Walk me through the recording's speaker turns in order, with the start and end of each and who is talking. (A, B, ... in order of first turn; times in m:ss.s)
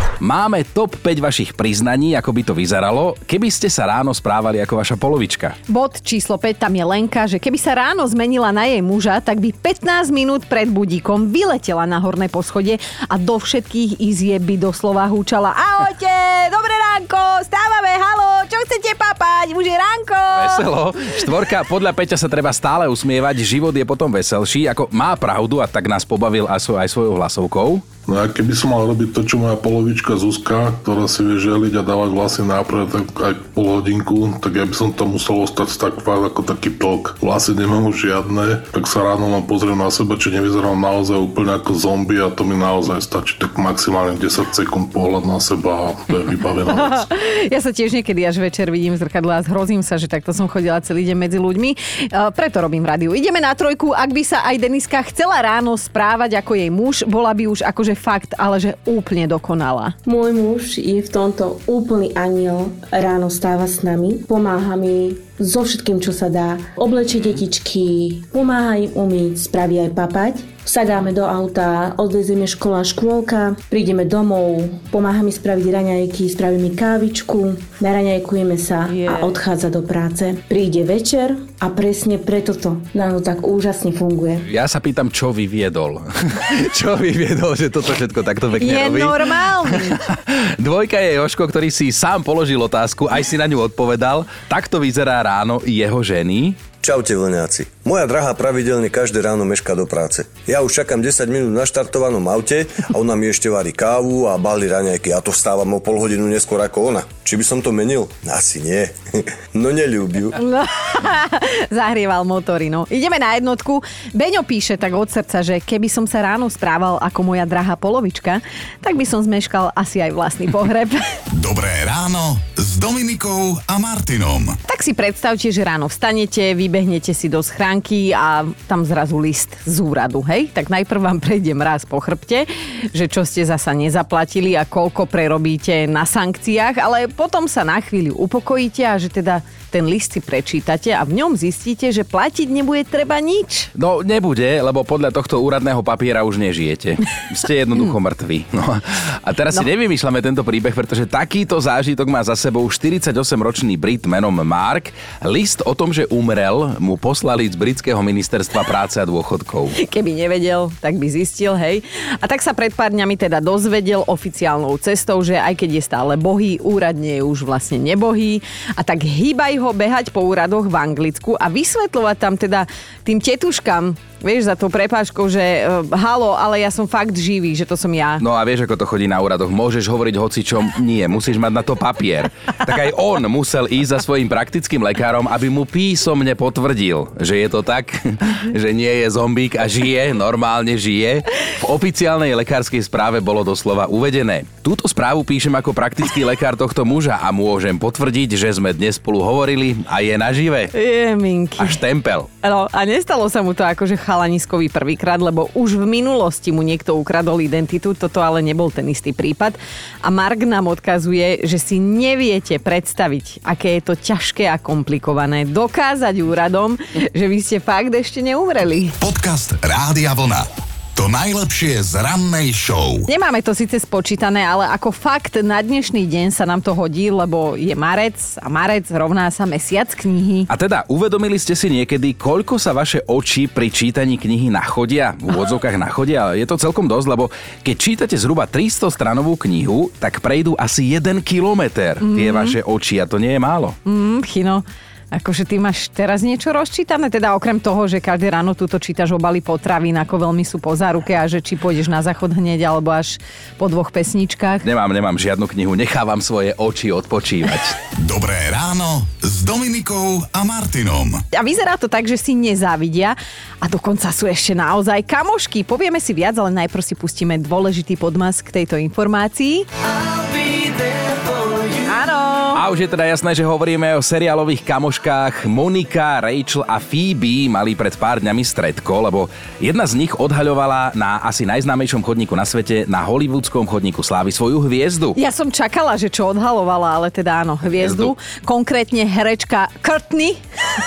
0:00.2-0:05.6 A
0:05.7-0:20.7 B
0:20.3-0:27.8 A
0:28.1-0:47.1 C
0:46.7-0:59.9 B
1:00.0-1:24.4 D
1:18.9-1:19.3 B
1:24.4-1:36.6 A
1:28.6-1:30.0 B
1:36.8-1:50.3 E
1:50.4-2:01.1 B
2:01.3-2:04.6 F
2:04.7-2:23.7 B
2:23.7-2:39.8 A
2:39.7-2:58.2 B
2:58.2-3:20.7 A
3:20.7-3:21.8 B
3:21.6-3:22.3 A
3:22.4-3:38.9 B
3:39.0-3:43.1 F
3:43.1-3:50.5 B
3:50.5-4:03.8 A
4:02.0-4:02.6 B
4:03.8-4:14.6 B
4:14.6-4:17.8 A
4:17.9-4:21.2 F
4:21.3-4:29.7 B
4:30.2-4:31.8 A
4:31.8-4:32.6 B
4:32.5-4:45.2 A
4:45.2-4:50.4 B
4:47.8-4:48.1 A